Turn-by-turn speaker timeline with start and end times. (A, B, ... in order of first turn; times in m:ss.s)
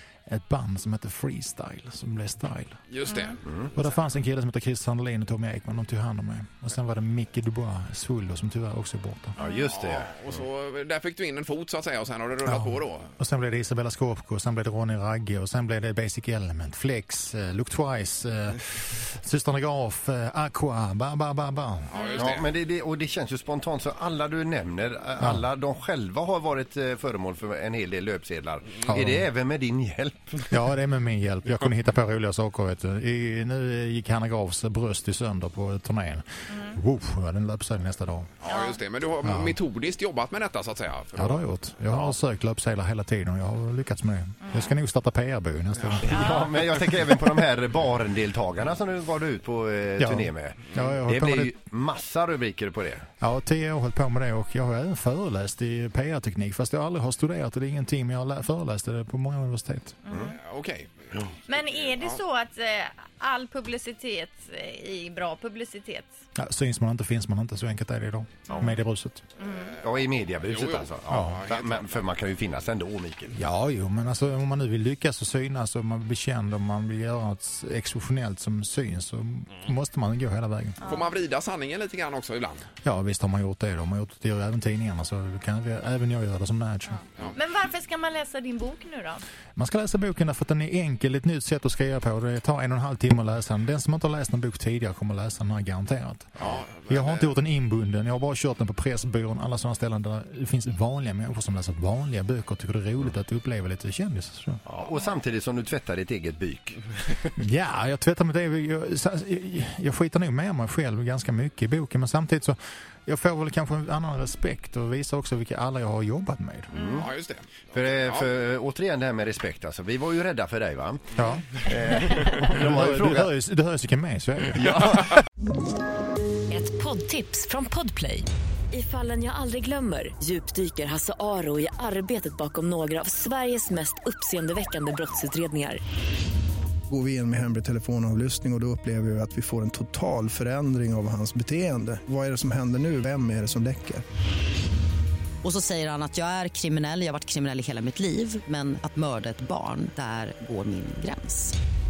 0:00.3-0:02.8 A
0:02.9-0:03.4 B
0:03.7-0:09.4 A
0:09.4-0:10.4 C
0:09.6-0:13.1 B
0:12.4-0:21.9 A
0:22.0-0:22.3 D
0:22.2-0:30.5 C
0:25.2-0:25.4 A
0:28.8-0:29.2 A
0:30.5-0:38.3 A
0:38.4-0:41.2 B
0:38.5-0:38.8 D
0:39.2-0:39.6 A
0:41.2-0:46.3 A
0:46.0-0:53.0 C
0:50.0-0:51.6 A
0:53.2-1:00.0 A
1:00.3-1:00.9 B
1:01.5-1:06.1 D
1:01.6-1:02.3 B
1:06.4-1:09.2 A
1:08.5-1:08.8 C
1:09.4-1:09.7 D
1:09.5-1:09.8 B
1:09.8-1:13.4 C
1:10.5-1:10.7 B
1:11.1-1:11.5 A
1:11.4-1:11.7 B
1:13.3-1:20.8 A
1:20.8-1:21.1 D
1:20.9-1:22.7 B
1:22.8-1:27.0 A
1:27.2-1:29.2 D
1:29.6-1:44.6 A
1:36.4-1:36.7 C
1:36.8-1:37.3 B
1:44.7-1:47.3 C
1:47.4-1:56.7 A
1:56.7-2:03.3 C
1:57.0-1:57.6 B
2:01.2-2:01.5 A
2:02.4-2:05.0 A
2:04.6-2:05.2 C
2:06.5-2:15.8 E
2:16.9-2:24.0 F
2:25.4-2:31.6 G